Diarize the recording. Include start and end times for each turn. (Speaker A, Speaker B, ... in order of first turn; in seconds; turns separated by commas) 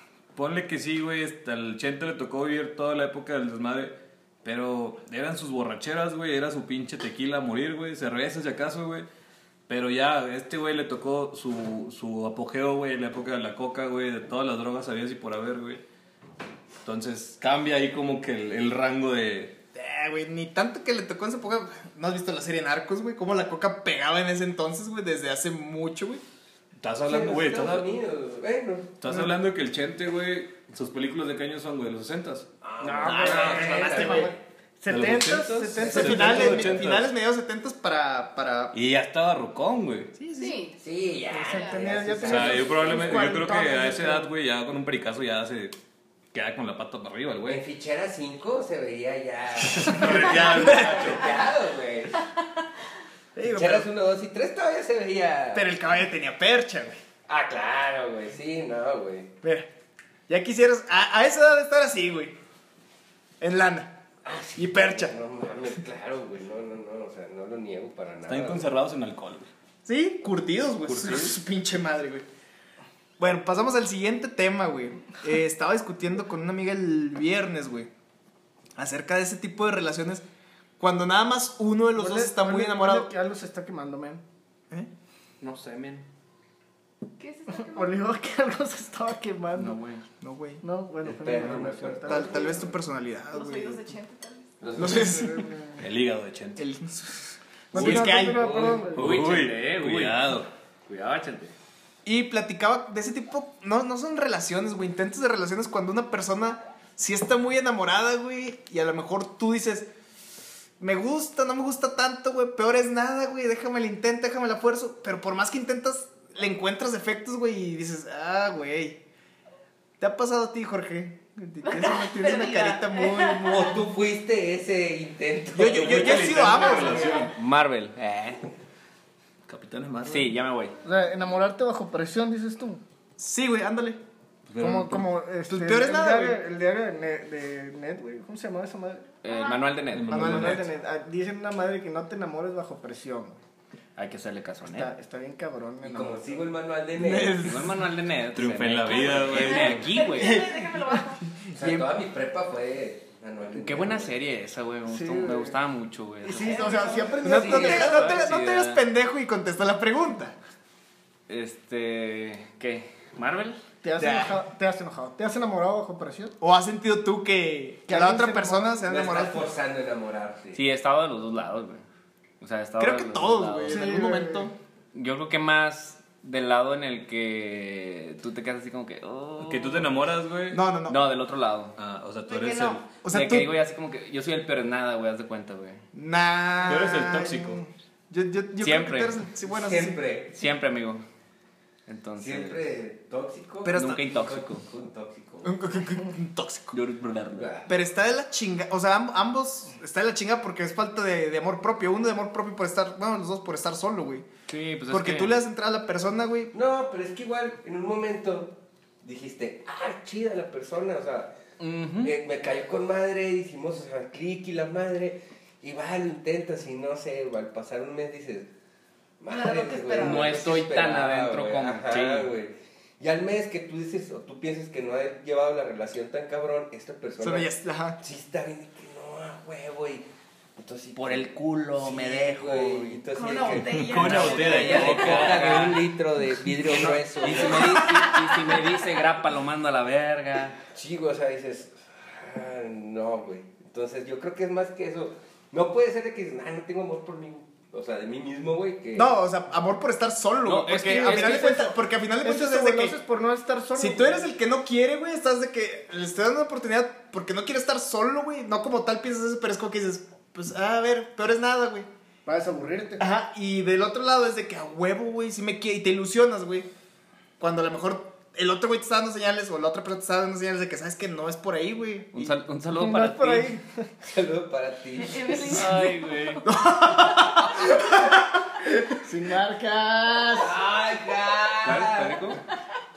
Speaker A: 0.3-9.1, Speaker A: 9.7-15.8, Speaker A: 16.8-19.6, Speaker B: 19.7-26.2, Speaker A: 26.8-27.9, Speaker C: 27.0-28.9, Speaker A: 29.0-32.5, Speaker C: 32.6-34.4, Speaker D: 32.8-33.5, Speaker E: 32.9-36.8, Speaker A: 33.0-33.9, Speaker B: 33.3-34.3, Speaker A: 34.9-37.1, Speaker B: 35.8-38.7, Speaker A: 38.7-40.1, Speaker B: 40.1-40.6, Speaker F: 40.4-40.8, Speaker C: 40.8-43.3, Speaker E: 41.3-44.3, Speaker F: 41.5-41.9, Speaker A: 42.2-45.7, Speaker A: 46.3-47.6, Speaker C: 47.5-52.2, Speaker A: 49.7-51.3, Speaker B: 53.4-53.9, Speaker C: 53.5-55.7, Speaker B: 55.5-57.0, Speaker C: 57.3-59.3, Speaker B: 59.4-59.7, Speaker B: 60.3-62.4, Speaker B: 63.4-64.0, Speaker C: 64.2-68.7, Speaker B: 64.5-65.1, Speaker A: 68.2-69.5, Speaker B: 69.8-72.2, Speaker A: 70.8-71.3, Speaker B: 73.2-77.9, Speaker B: 78.8-80.2, Speaker B: 80.8-83.1, Speaker E: 82.0-84.2, Speaker D: 85.4-86.0, Speaker F: 87.2-88.1, Speaker E: 87.5-89.8, Speaker D: 89.5-90.0, Speaker B: 90.2-90.6, Speaker E: 90.6-92.6, Speaker C: 91.0-92.8, Speaker B: 92.0-93.8, Speaker F: 93.3-94.7, Speaker C: 94.7-95.0, Speaker B: 94.8-95.5, Speaker E: 94.8-95.8, Speaker A: 95.8-96.7, Speaker B: 96.6-98.7, Speaker E: 97.7-99.2, Speaker A: 97.8-98.2, Speaker D: 98.4-100.3, Speaker A: 98.9-100.5, Speaker D: 100.9-101.5, Speaker B: 102.0-109.9, Speaker B: 110.8-119.0, Speaker B: 120.0-123.8, Speaker F: 121.6-123.7, Speaker C: 123.4-127.1, Speaker B: 125.5-127.3, Speaker A: 125.6-127.3, Speaker D: 127.3-128.5, Speaker A: 129.5-130.4, Speaker D: 130.1-130.8, Speaker E: 130.8-132.8, Speaker B: 133.2-134.0, Speaker A: 134.5-135.1, Speaker E: 134.6-139.1, Speaker B: 135.5-136.4, Speaker D: 139.2-140.6, Speaker F: 139.3-139.7, Speaker A: 139.9-140.7, Speaker E: 140.1-143.4, Speaker B: 140.1-140.6, Speaker D: 143.9-144.9, Speaker E: 144.7-146.4, Speaker C: 145.8-147.4, Speaker B: 146.9-147.8, Speaker D: 147.4-150.5, Speaker A: 148.3-149.9, Speaker F: 148.9-151.2, Speaker C: 151.5-154.1, Speaker D: 153.6-158.8, Speaker E: 154.9-155.6, Speaker E: 156.2-158.2, Speaker F: 156.3-157.8, Speaker B: 157.2-160.3, Speaker D: 161.3-163.6, Speaker E: 163.8-166.3, Speaker B: 164.0-164.4, Speaker B: 166.4-169.5, Speaker E: 167.9-168.8, Speaker C: 168.8-170.6, Speaker D: 170.5-171.8, Speaker D: 172.4-174.0, Speaker B: 172.8-174.5, Speaker E: 173.6-174.5, Speaker D: 174.9-179.9, Speaker A: 179.4-180.6, Speaker B: 180.5-181.0, Speaker D: 180.8-181.8, Speaker A: 181.8-182.9, Speaker F: 182.3-182.8, Speaker B: 183.0-183.5, Speaker D: 183.1-185.8, Speaker B: 185.9-190.0, Speaker A: 186.7-187.6, Speaker D: 188.6-189.2, Speaker C: 189.5-190.3, Speaker D: 190.3-191.0, Speaker D: 191.9-192.7, Speaker C: 192.2-195.6, Speaker B: 193.6-194.0, Speaker D: 193.7-194.6, Speaker B: 195.4-196.7, Speaker D: 196.7-197.7, Speaker C: 197.3-197.7, Speaker B: 197.7-204.3, Speaker D: 204.5-205.4, Speaker B: 204.9-206.5, Speaker C: 206.5-211.3, Speaker D: 211.6-212.1, Speaker C: 212.0-218.5, Speaker C: 219.2-238.1, Speaker F: 219.3-220.4, Speaker D: 219.9-222.3, Speaker B: 227.2-228.0, Speaker D: 230.9-233.0, Speaker F: 233.1-235.2, Speaker A: 233.6-235.8, Speaker D: 233.9-235.9, Speaker D: 236.7-240.6, Speaker C: 240.7-249.1, Speaker B: 248.9-253.0, Speaker D: 250.4-251.6, Speaker E: 250.8-254.3, Speaker B: 253.7-261.9, Speaker E: 262.2-263.0, Speaker B: 263.0-266.7, Speaker B: 267.4-272.4, Speaker D: 272.1-273.6, Speaker E: 272.7-273.9, Speaker C: 274.0-275.6, Speaker F: 275.0-276.4, Speaker D: 275.4-276.4, Speaker B: 276.4-278.6, Speaker E: 278.9-280.6, Speaker C: 280.3-282.3, Speaker D: 281.6-282.4